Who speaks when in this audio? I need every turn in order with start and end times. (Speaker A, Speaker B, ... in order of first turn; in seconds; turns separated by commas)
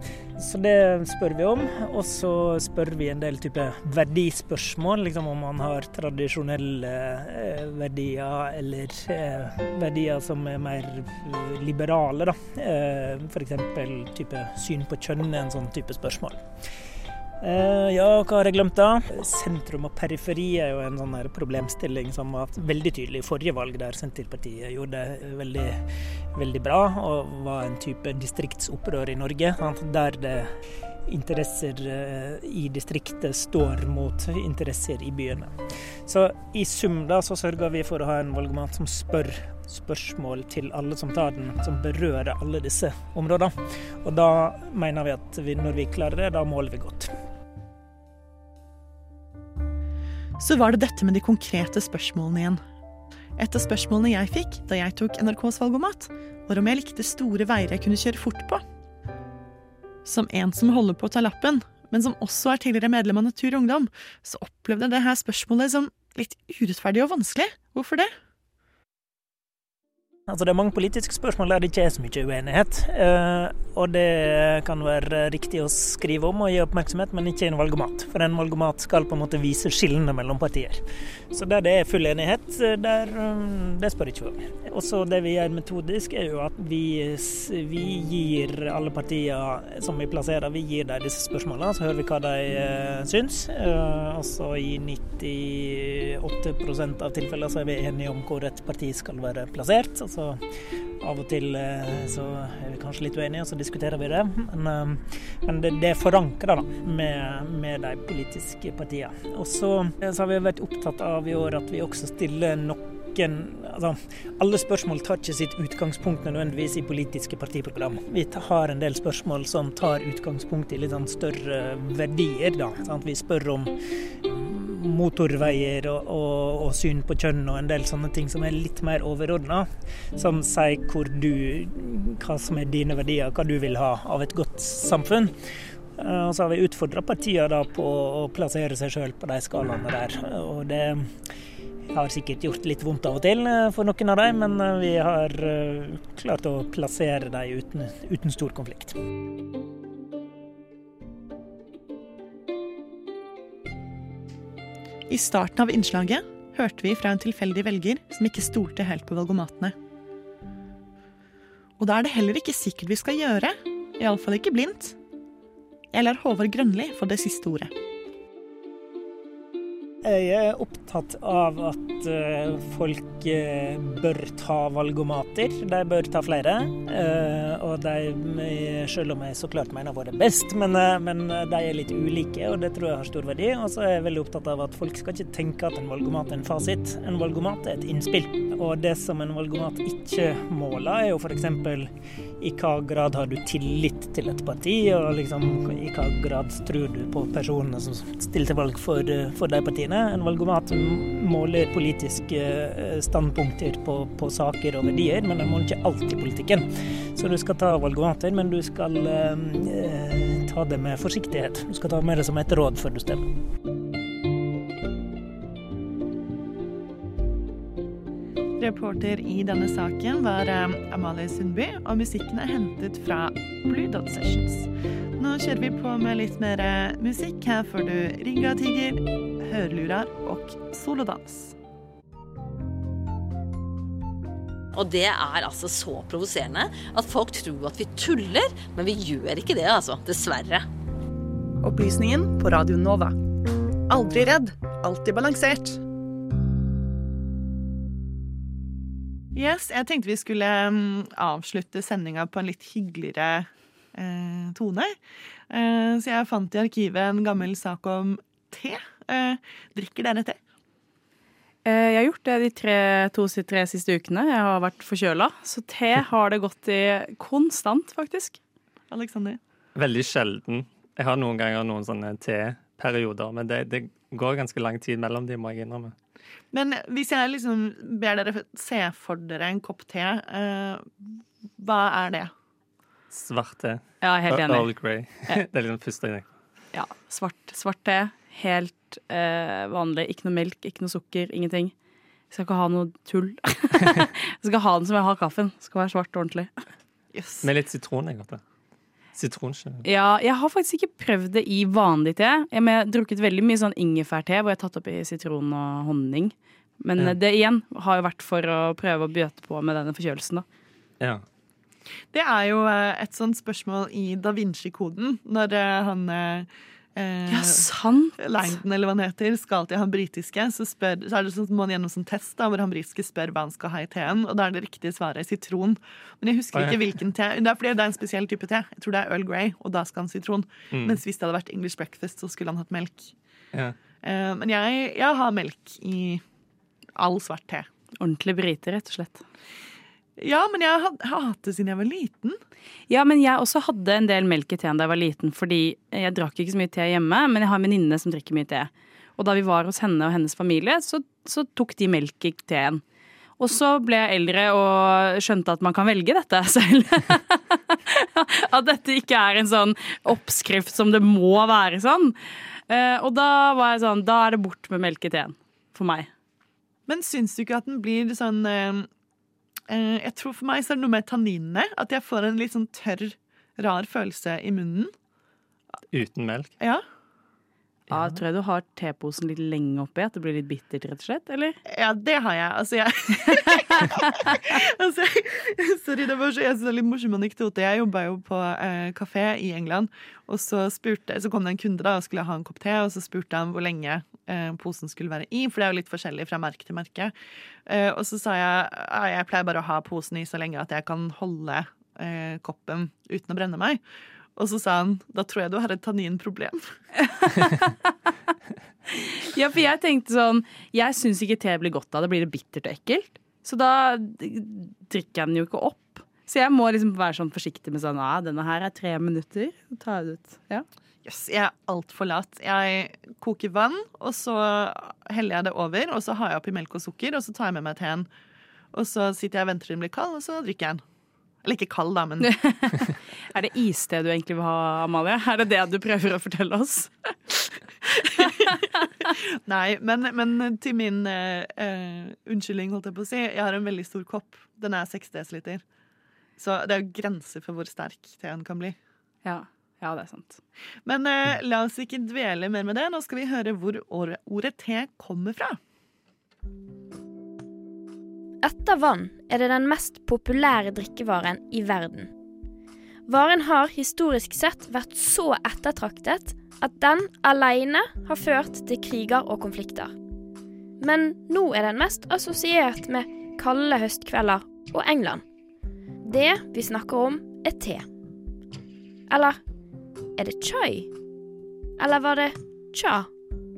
Speaker A: 0.4-16.4, Speaker A: 17.4-25.8, Speaker A: 26.4-30.5, Speaker A: 31.1-35.5, Speaker A: 36.0-47.1, Speaker B: 50.4-52.6, Speaker B: 53.4-58.6, Speaker B: 60.0-68.1, Speaker A: 70.3-100.4, Speaker A: 101.0-123.7, Speaker A: 124.2-135.3, Speaker A: 136.0-141.1, Speaker A: 141.9-149.0, Speaker B: 155.1-159.7, Speaker B: 161.8-164.9, Speaker B: 165.9-167.7, Speaker A: 170.0-191.9, Speaker A: 192.4-213.2, Speaker B: 218.6-231.5, Speaker C: 234.7-240.6, Speaker B: 241.6-243.1, Speaker B: 243.9-245.8, Speaker B: 249.3-255.0, Speaker B: 255.5-260.4, Speaker D: 261.6-268.4, Speaker B: 268.9-269.4, Speaker E: 269.8-275.9, Speaker B: 276.5-280.9, Speaker B: 281.6-282.3, Speaker E: 283.1-286.3, Speaker D: 284.0-284.7, Speaker D: 286.7-291.7, Speaker D: 292.3-296.5, Speaker B: 297.1-297.5, Speaker E: 297.4-298.4, Speaker E: 299.1-299.8, Speaker D: 299.9-310.4, Speaker B: 312.1-317.6, Speaker D: 317.3-318.5, Speaker B: 318.2-333.1, Speaker E: 326.5-326.9, Speaker E: 330.7-331.0, Speaker B: 334.0-336.2, Speaker B: 336.9-337.7, Speaker D: 338.0-339.2, Speaker B: 340.2-342.4, Speaker D: 342.9-352.8, Speaker D: 353.4-362.1, Speaker D: 362.7-366.1, Speaker B: 366.9-368.9, Speaker B: 369.7-374.9, Speaker E: 375.9-376.5, Speaker D: 377.9-381.6, Speaker B: 381.7-397.1, Speaker D: 383.6-384.0, Speaker B: 397.6-403.8, Speaker B: 404.4-406.6, Speaker D: 407.0-407.9, Speaker D: 408.9-420.6, Speaker B: 421.1-428.1, Speaker B: 428.7-430.8, Speaker B: 431.4-432.3, Speaker D: 432.2-437.3, Speaker D: 437.9-438.5, Speaker B: 439.4-445.6, Speaker B: 446.4-448.8, Speaker D: 449.2-450.4, Speaker B: 450.9-455.6, Speaker F: 458.4-462.1, Speaker F: 463.1-469.9, Speaker F: 470.8-475.2, Speaker F: 476.0-477.8, Speaker F: 479.1-479.4, Speaker F: 480.2-480.9, Speaker F: 481.8-483.1